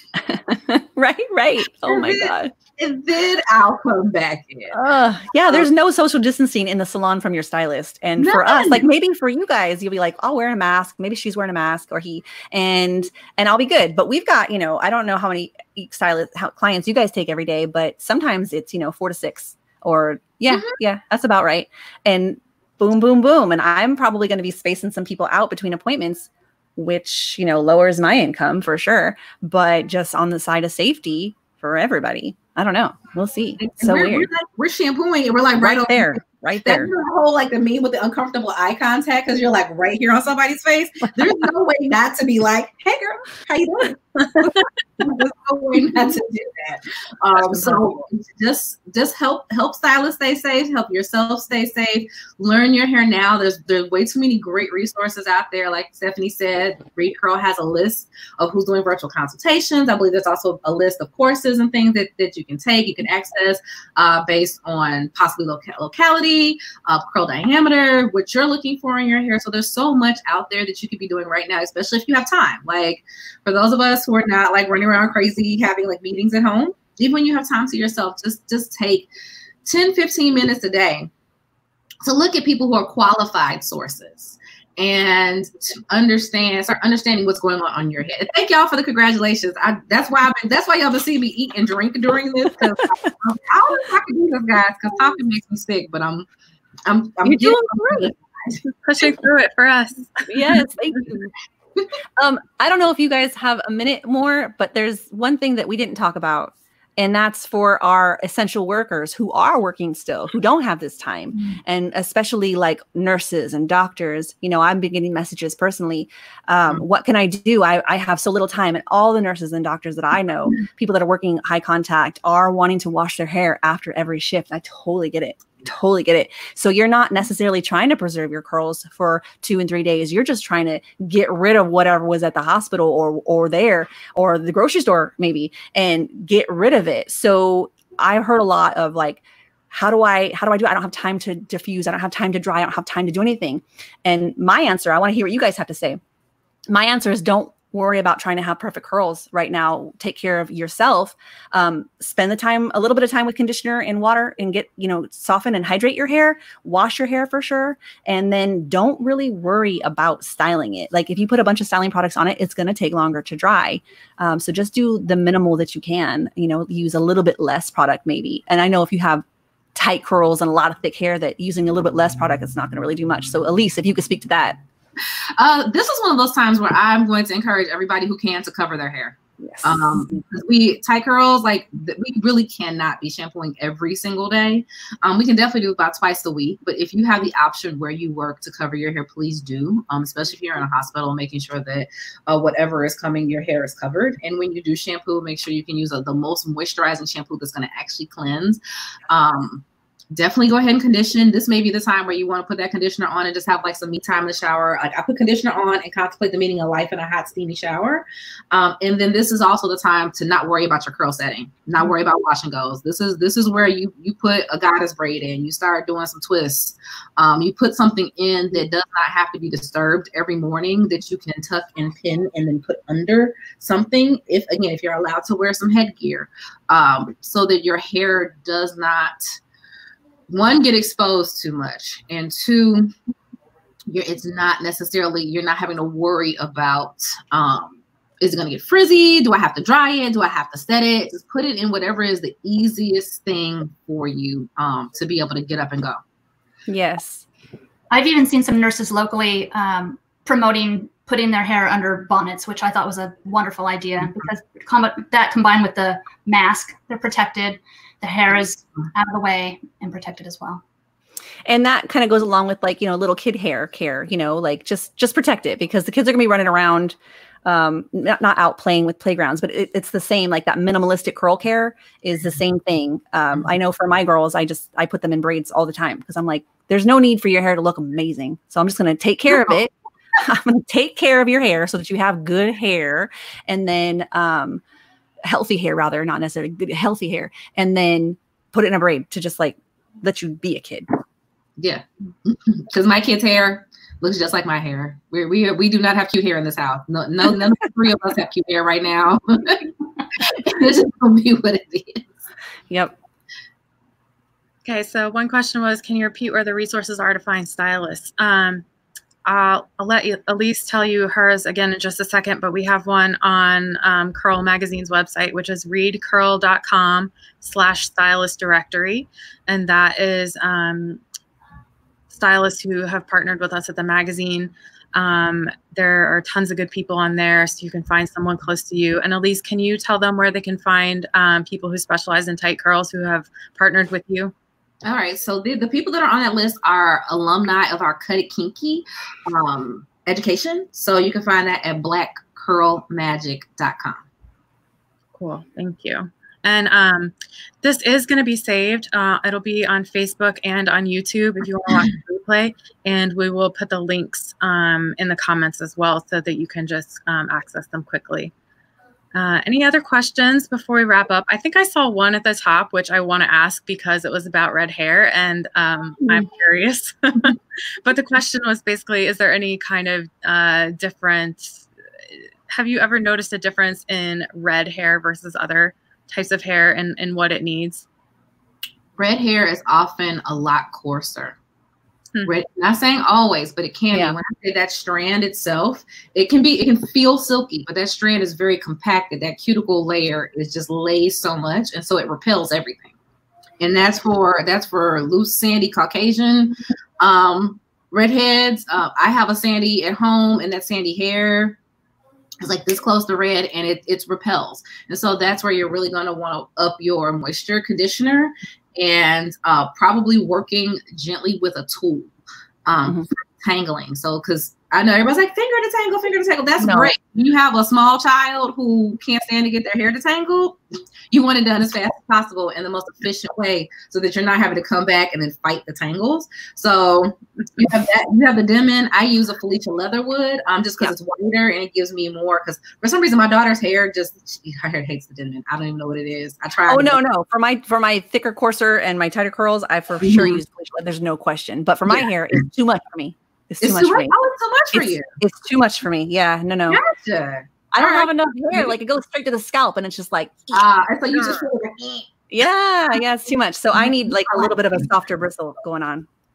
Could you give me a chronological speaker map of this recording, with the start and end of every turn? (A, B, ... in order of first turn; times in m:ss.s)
0:00.2-0:02.5 A
0:01.8-0:04.8 B
0:04.7-0:34.3 A
0:08.2-0:08.8 B
0:20.5-0:20.8 B
0:33.6-1:19.1 B
0:35.6-0:36.9 A
0:47.4-0:47.9 A
1:19.6-1:21.1 B
1:22.0-1:36.3 B
1:36.8-1:38.6 B
1:37.2-1:38.1 A
1:38.8-1:40.6 C
1:40.3-1:41.3 A
1:42.2-2:26.0 A
2:26.7-2:49.2 A
2:49.7-2:54.6 A
2:55.4-3:49.4 B
2:59.4-3:00.2 A
3:50.3-3:52.9 B
3:53.9-4:06.0 B
4:06.7-4:07.2 A
4:07.9-4:20.6 D
4:21.4-4:44.6 A
4:45.2-4:50.9 A
4:51.6-5:02.1 B
5:04.6-5:08.6 C
5:09.2-5:21.0 C
5:22.1-5:34.3 C
5:34.8-5:44.0 B
5:45.1-5:58.3 C
5:59.1-6:17.8 C
6:19.0-6:21.4 B
6:22.2-6:32.9 B
6:33.6-6:41.6 B
6:42.4-6:52.1 B
6:52.6-7:00.6 B
6:56.6-6:56.9 A
7:01.1-7:17.0 B
7:16.7-7:24.1 A
7:20.0-7:20.4 B
7:23.6-7:25.1 B
7:24.7-7:26.8 A
7:26.7-7:28.7 B
7:27.7-7:31.5 A
7:30.5-7:32.1 B
7:32.3-7:36.1 A
7:34.2-7:34.5 B